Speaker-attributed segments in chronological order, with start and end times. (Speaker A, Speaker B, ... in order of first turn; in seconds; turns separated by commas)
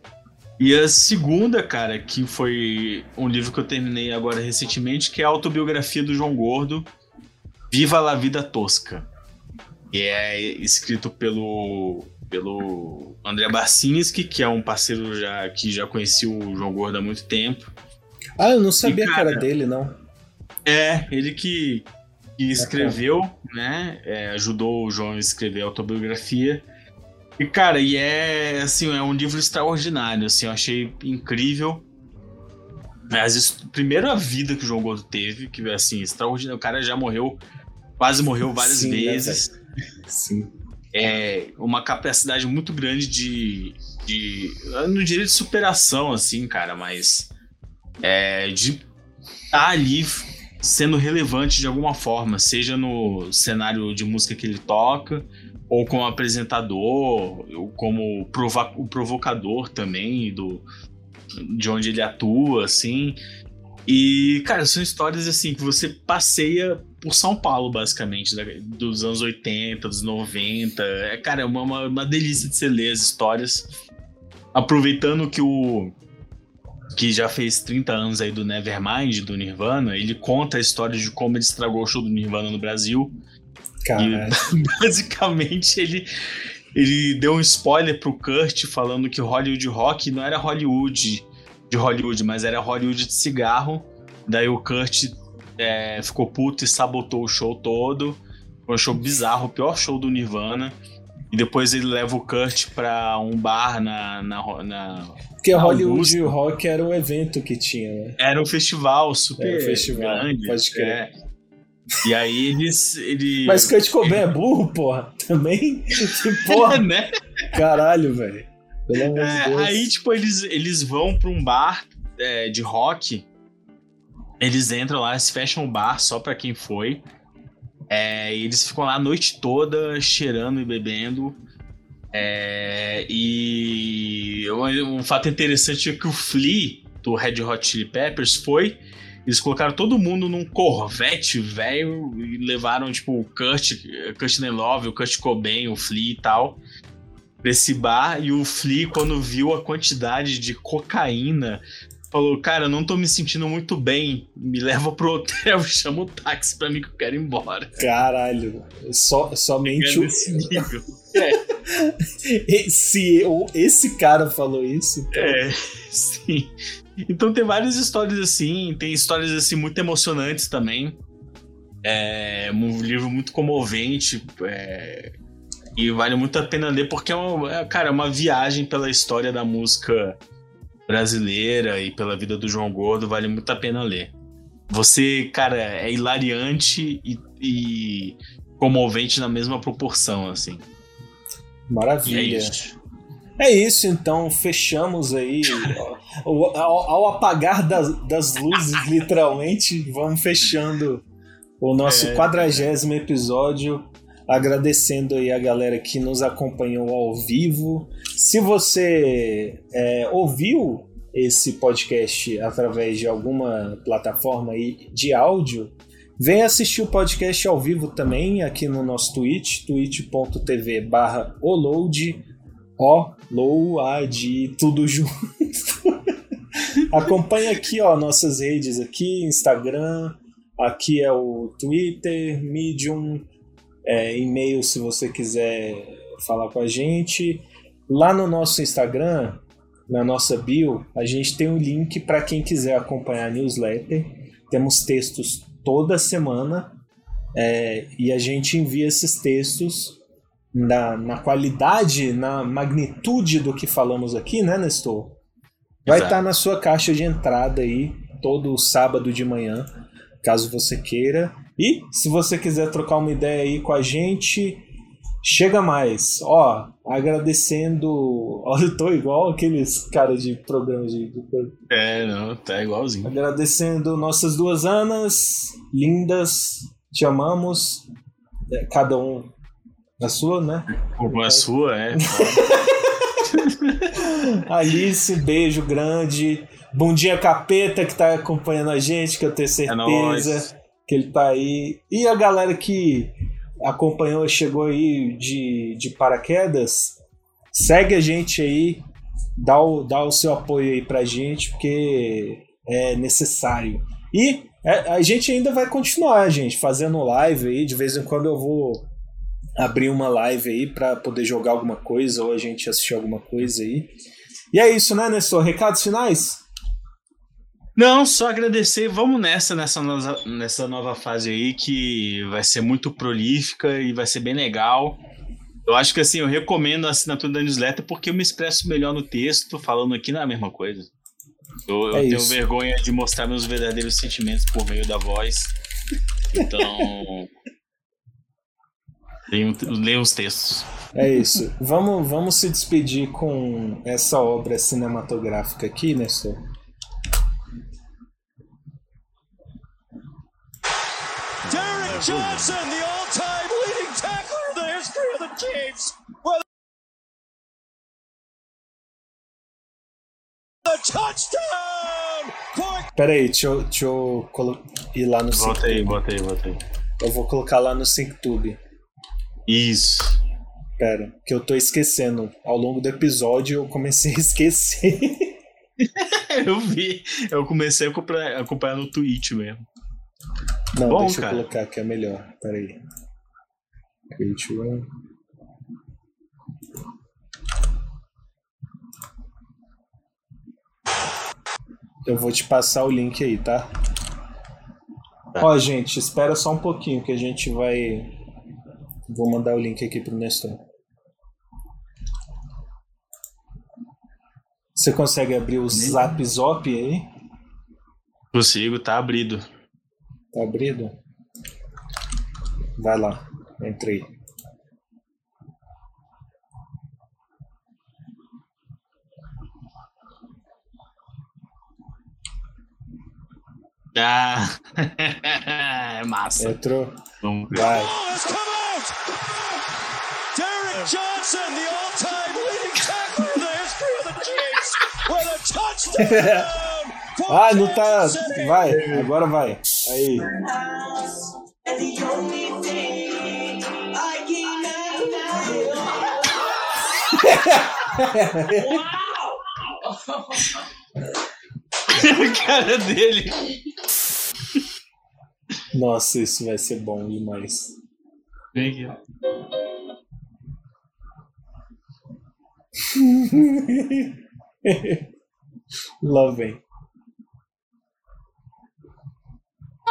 Speaker A: 0.6-6.9, Speaker A: 7.7-9.1, Speaker A: 9.9-17.7, Speaker B: 18.4-20.0, Speaker A: 18.8-19.5, Speaker A: 20.7-26.6, Speaker B: 22.6-23.0, Speaker A: 27.4-31.8, Speaker A: 33.1-37.4, Speaker A: 38.0-39.5, Speaker B: 38.5-39.5, Speaker B: 40.1-40.5, Speaker A: 40.9-47.3, Speaker A: 48.0-48.8, Speaker A: 49.5-60.6, Speaker A: 61.4-63.2, Speaker A: 63.9-73.7, Speaker A: 74.5-75.9, Speaker A: 76.9-83.2, Speaker B: 83.8-84.4, Speaker A: 84.0-86.1, Speaker A: 86.8-100.8, Speaker A: 101.3-106.3, Speaker B: 105.4-108.2, Speaker A: 108.2-111.1, Speaker B: 109.4-111.0, Speaker A: 112.0-114.3, Speaker B: 113.5-116.9, Speaker A: 116.0-117.6, Speaker B: 117.5-119.9, Speaker A: 119.1-123.3, Speaker A: 124.4-127.0, Speaker A: 127.9-131.4, Speaker A: 132.1-146.6, Speaker A: 147.4-157.8, Speaker B: 157.8-165.4, Speaker A: 159.6-161.4, Speaker A: 165.1-171.0, Speaker A: 171.8-175.1, Speaker A: 175.8-180.2, Speaker A: 180.9-184.1, Speaker A: 184.7-190.6, Speaker B: 191.7-192.6, Speaker A: 192.1-192.8, Speaker B: 193.4-201.1, Speaker A: 195.5-195.8, Speaker B: 201.6-222.3, Speaker A: 201.8-202.7, Speaker B: 222.8-226.2, Speaker B: 226.8-233.3, Speaker B: 233.9-246.8, Speaker B: 247.3-250.0, Speaker B: 250.5-255.2, Speaker A: 255.9-256.2, Speaker B: 255.9-259.7, Speaker B: 260.2-264.7, Speaker B: 265.2-271.6, Speaker A: 271.7-273.1, Speaker B: 273.0-277.9, Speaker B: 278.5-279.3, Speaker B: 280.0-283.0, Speaker A: 280.7-282.4, Speaker A: 283.3-284.0, Speaker B: 283.9-297.0, Speaker A: 289.7-290.5, Speaker B: 297.5-298.8, Speaker B: 299.4-308.9, Speaker B: 309.6-313.9, Speaker B: 314.5-316.4, Speaker A: 317.8-325.0, Speaker A: 325.7-330.9, Speaker A: 331.7-335.5, Speaker B: 331.9-332.4, Speaker A: 336.3-337.3, Speaker B: 336.4-336.9, Speaker A: 339.3-341.2, Speaker B: 341.0-346.4, Speaker C: 351.5-356.4, Speaker C: 360.7-362.9, Speaker B: 362.9-366.0, Speaker A: 365.3-366.6, Speaker B: 367.0-368.6, Speaker A: 369.5-370.2, Speaker B: 370.8-375.4, Speaker A: 375.8-379.7, Speaker B: 380.8-382.8, Speaker A: 380.9-381.4, Speaker B: 384.1-384.9, Speaker B: 392.1-393.7, Speaker B: 395.4-398.2, Speaker B: 399.1-400.6, Speaker B: 404.8-407.1, Speaker A: 405.7-406.1, Speaker A: 408.3-409.4, Speaker B: 410.3-410.9, Speaker B: 412.8-414.1, Speaker A: 423.9-426.6, Speaker B: 426.4-427.9, Speaker A: 427.2-427.9, Speaker C: 427.7-428.9, Speaker C: 430.3-439.1, Speaker B: 436.0-436.6, Speaker B: 437.3-440.3, Speaker A: 438.7-439.1, Speaker C: 441.7-443.2, Speaker C: 444.1-445.1, Speaker B: 447.1-448.9, Speaker A: 451.9-453.6, Speaker B: 455.7-457.7, Speaker A: 458.6-459.0, Speaker B: 462.8-465.1, Speaker B: 466.0-466.6